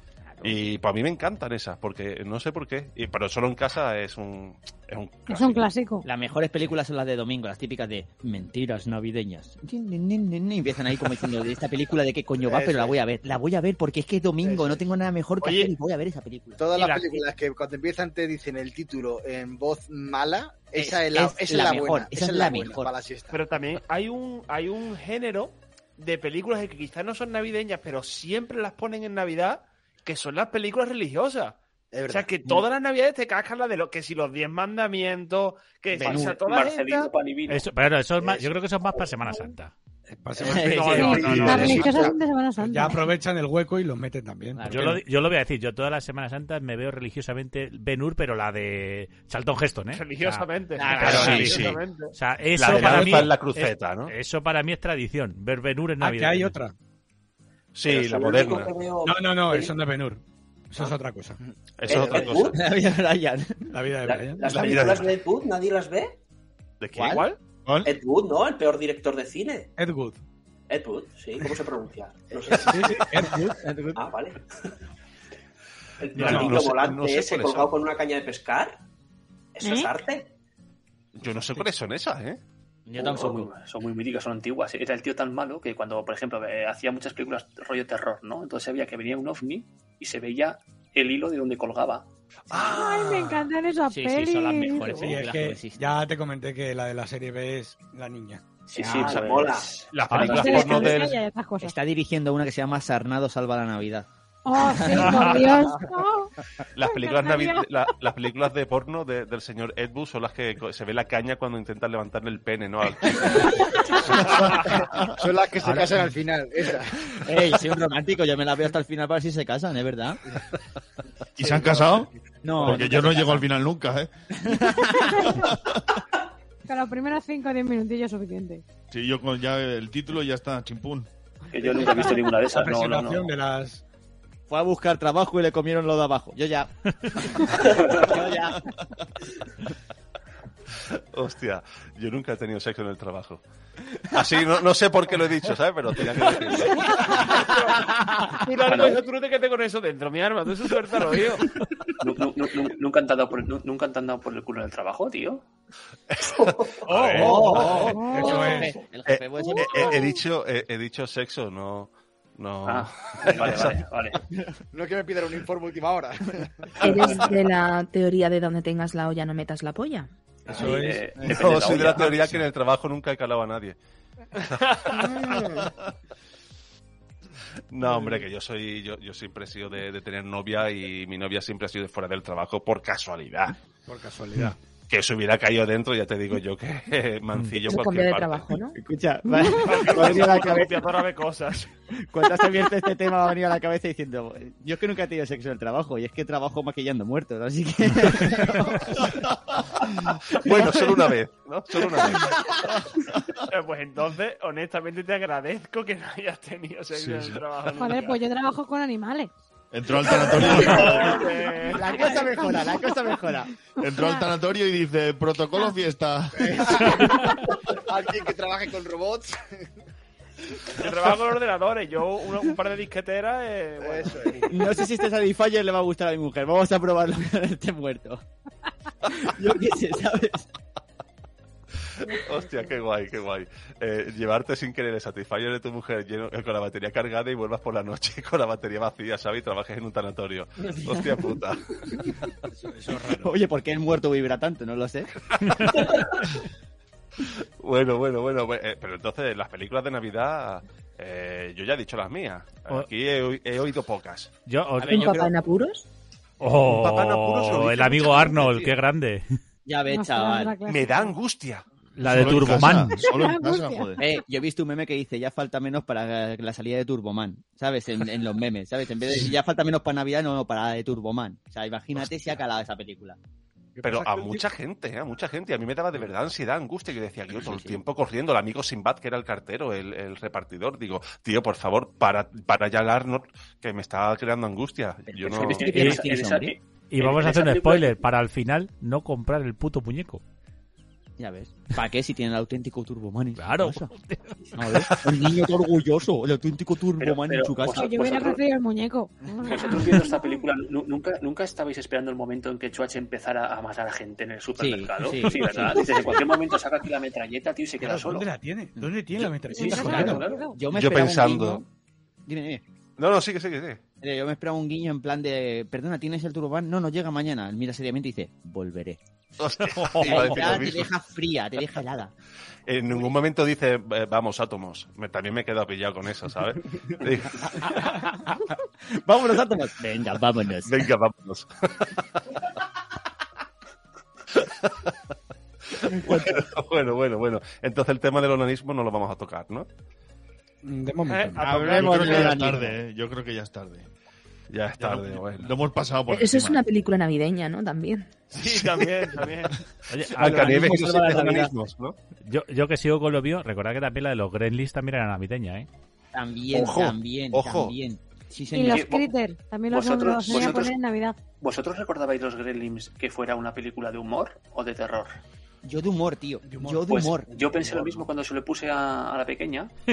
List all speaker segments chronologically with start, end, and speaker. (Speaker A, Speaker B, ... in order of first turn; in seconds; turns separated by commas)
Speaker A: 0.4-5.7, Speaker B: 5.3-6.1, Speaker C: 6.0-16.6, Speaker D: 12.4-13.0, Speaker D: 14.4-14.8, Speaker E: 15.4-15.7, Speaker D: 16.6-23.4, Speaker E: 16.8-17.2, Speaker C: 20.8-22.9, Speaker E: 23.3-31.6, Speaker D: 31.9-32.5, Speaker E: 32.1-37.1, Speaker C: 36.0-36.4, Speaker F: 36.0-37.6, Speaker G: 37.5-39.7, Speaker H: 40.1-45.0, Speaker C: 40.4-42.1, Speaker E: 40.4-41.9, Speaker B: 40.9-43.1, Speaker D: 41.8-42.1, Speaker C: 44.5-45.0, Speaker G: 44.6-56.6, Speaker E: 49.9-52.1, Speaker C: 50.8-51.7, Speaker A: 51.0-51.8, Speaker A: 52.6-54.1, Speaker H: 56.0-56.7, Speaker A: 57.8-58.7, Speaker I: 57.9-59.8, Speaker H: 59.0-61.4, Speaker A: 61.8-62.5, Speaker I: 61.9-62.6, Speaker C: 62.5-63.7, Speaker H: 63.7-64.5, Speaker I: 64.1-66.2, Speaker A: 64.5-65.1, Speaker A: 66.8-67.4, Speaker C: 67.0-67.2, Speaker I: 67.8-69.7, Speaker H: 69.8-70.2, Speaker I: 70.7-73.2, Speaker H: 72.7-73.6, Speaker C: 73.6-74.0, Speaker I: 74.0-74.4, Speaker I: 76.0-78.8, Speaker A: 76.2-77.7, Speaker H: 76.2-76.5, Speaker I: 79.5-80.3, Speaker B: 79.6-79.9, Speaker A: 81.2-82.4, Speaker C: 82.9-83.5, Speaker F: 83.0-92.1, Speaker C: 92.5-93.4, Speaker B: 92.6-95.2, Speaker C: 93.9-96.0, Speaker H: 95.0-98.5, Speaker F: 98.7-99.8, Speaker I: 98.7-100.9, Speaker A: 98.9-101.2, Speaker C: 100.1-100.8, Speaker B: 100.2-101.8, Speaker C: 101.6-105.6, Speaker B: 104.5-107.7, Speaker E: 104.9-105.5, Speaker A: 106.7-114.1, Speaker B: 113.7-114.0, Speaker D: 115.2-117.1, Speaker C: 117.2-120.2, Speaker J: 121.4-124.1, Speaker E: 121.4-122.0, Speaker C: 122.4-123.5, Speaker C: 124.4-125.3, Speaker B: 124.9-125.4, Speaker J: 125.3-125.8, Speaker B: 126.7-128.6, Speaker J: 128.9-131.1, Speaker F: 131.5-133.3, Speaker H: 131.6-133.8, Speaker C: 134.5-138.6, Speaker A: 141.1-143.4, Speaker A: 144.1-147.3, Speaker E: 147.4-147.9, Speaker E: 148.4-151.5, Speaker F: 148.6-149.0, Speaker F: 152.0-155.4, Speaker A: 156.1-158.0, Speaker I: 156.4-158.0, Speaker H: 156.9-158.7, Speaker B: 157.9-158.7, Speaker C: 158.2-160.1, Speaker A: 159.1-163.8, Speaker B: 159.4-160.2, Speaker F: 162.7-164.2, Speaker D: 164.7-166.5, Speaker K: 166.8-170.1, Speaker H: 170.5-171.7, Speaker F: 170.5-172.3, Speaker A: 171.2-173.8, Speaker A: 174.4-175.4, Speaker K: 174.9-175.7, Speaker A: 177.7-183.6, Speaker H: 177.8-178.2, Speaker H: 183.9-184.6, Speaker A: 184.9-188.5, Speaker K: 187.6-188.8, Speaker C: 188.8-190.8, Speaker B: 189.3-189.6, Speaker E: 189.6-191.7, Speaker C: 192.0-199.1, Speaker A: 200.3-202.5, Speaker C: 200.4-200.9, Speaker E: 203.5-208.2, Speaker B: 207.8-209.3, Speaker J: 209.7-211.3, Speaker B: 210.1-211.1, Speaker E: 210.5-212.0, Speaker C: 211.7-213.5, Speaker B: 211.8-214.3, Speaker J: 213.8-217.3, Speaker D: 216.5-217.3, Speaker D: 217.9-219.5, Speaker E: 220.7-224.7, Speaker D: 223.8-224.5, Speaker C: 224.5-228.2, Speaker C: 229.1-230.5, Speaker A: 232.0-241.7, Speaker B: 232.1-232.7, Speaker H: 242.7-243.4, Speaker C: 243.1-245.1, Speaker A: 247.6-254.3, Speaker G: 254.5-255.2, Speaker C: 254.8-255.3, Speaker K: 254.9-255.9, Speaker G: 256.4-259.3, Speaker A: 256.6-258.7, Speaker C: 259.7-260.6, Speaker B: 259.9-261.2, Speaker A: 260.7-261.6, Speaker G: 262.0-263.0, Speaker J: 262.0-264.0, Speaker B: 262.9-264.2, Speaker C: 264.0-273.2, Speaker H: 273.8-274.4, Speaker A: 273.8-285.8, Speaker C: 277.3-277.8, Speaker C: 285.1-286.5, Speaker F: 285.4-287.9, Speaker G: 285.7-286.0, Speaker G: 286.9-290.2, Speaker C: 291.2-293.9, Speaker G: 293.4-294.5, Speaker C: 294.6-298.0, Speaker F: 297.0-298.4, Speaker B: 297.8-300.4, Speaker F: 299.5-308.3, Speaker C: 304.6-306.2, Speaker H: 307.8-310.3, Speaker B: 309.5-310.6, Speaker F: 309.6-310.5, Speaker C: 309.6-311.7, Speaker A: 310.7-311.6, Speaker C: 312.3-312.6, Speaker A: 313.0-313.8, Speaker C: 314.0-319.0, Speaker A: 319.4-320.9, Speaker G: 319.8-320.5, Speaker C: 320.0-322.1, Speaker A: 322.7-327.5, Speaker C: 328.9-330.9, Speaker A: 330.7-332.0, Speaker A: 334.4-334.9, Speaker A: 335.7-339.7, Speaker C: 336.1-336.4, Speaker H: 340.6-342.3, Speaker E: 341.1-342.4, Speaker J: 341.4-343.9, Speaker C: 341.7-342.8, Speaker A: 344.5-345.5, Speaker J: 344.8-346.6, Speaker K: 346.1-348.2, Speaker E: 348.3-349.6, Speaker G: 349.9-350.6, Speaker A: 350.1-352.0, Speaker C: 350.2-351.5, Speaker G: 352.2-355.7, Speaker C: 356.1-359.0, Speaker A: 356.5-357.8, Speaker B: 358.5-361.2, Speaker F: 358.7-359.1, Speaker F: 359.7-360.8, Speaker F: 361.4-365.2, Speaker C: 365.6-367.3, Speaker H: 366.4-366.9, Speaker F: 366.9-369.7, Speaker H: 367.6-367.9